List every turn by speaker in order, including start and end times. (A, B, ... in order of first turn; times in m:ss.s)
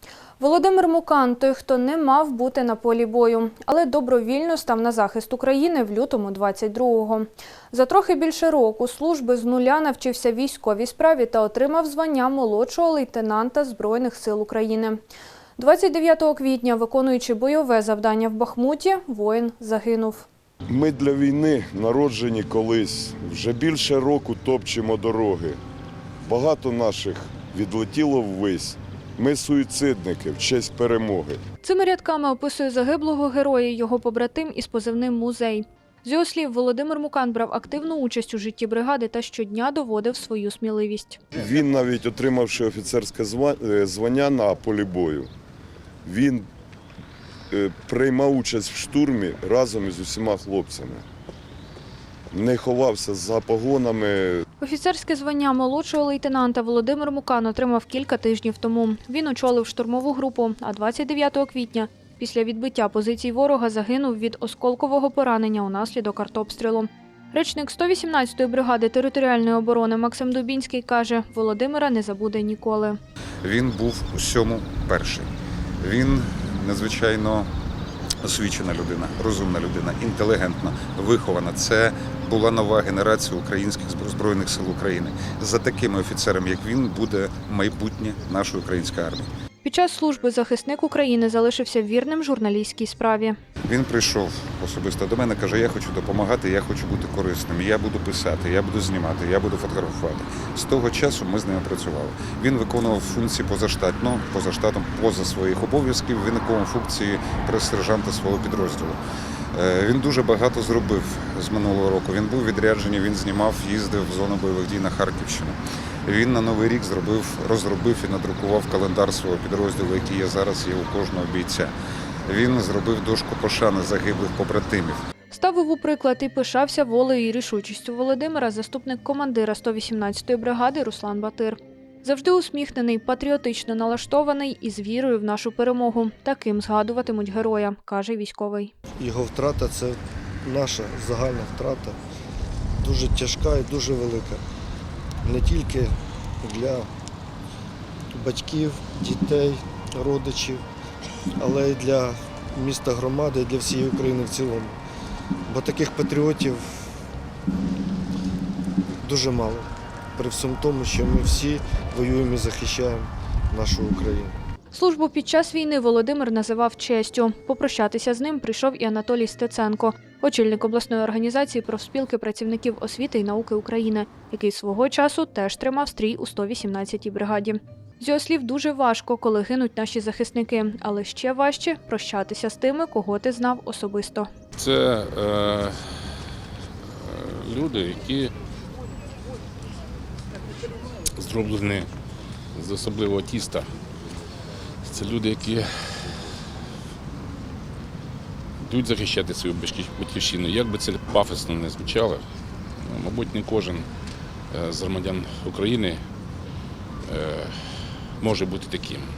0:00.4-0:15.0 A
0:15.6-0:20.3 A
0:20.7-0:25.6 B
0:26.2-0:31.4 B
0:31.6-0:41.2 A
0:41.4-0:45.3 B
0:46.0-0:46.5 B
0:47.5-0:51.0 B
0:52.3-0:54.4 B
0:54.6-1:13.0 A
1:13.4-1:15.3 C
1:15.8-1:17.5 C
1:18.2-1:29.3 C
1:29.6-1:33.4 A
1:33.7-1:49.0 C
1:49.5-2:01.7 C
2:02.3-2:05.0 C
2:05.3-2:18.7 A
2:19.0-2:22.0 D
2:22.8-2:24.4 D
2:25.2-2:26.9 D
2:28.1-2:30.6 D
2:31.4-2:34.8 D
2:35.5-2:36.9 D
2:39.0-2:44.4 D
2:44.7-3:04.3 A
3:04.6-3:05.8 E
3:06.9-3:08.3 E
3:11.2-3:11.9 E
3:12.6-3:13.7 E
3:14.8-3:16.1 E
3:18.6-3:22.2 E
3:22.8-3:23.9 E
3:24.5-3:26.0 E
3:27.1-3:27.6 E
3:28.2-3:29.1 E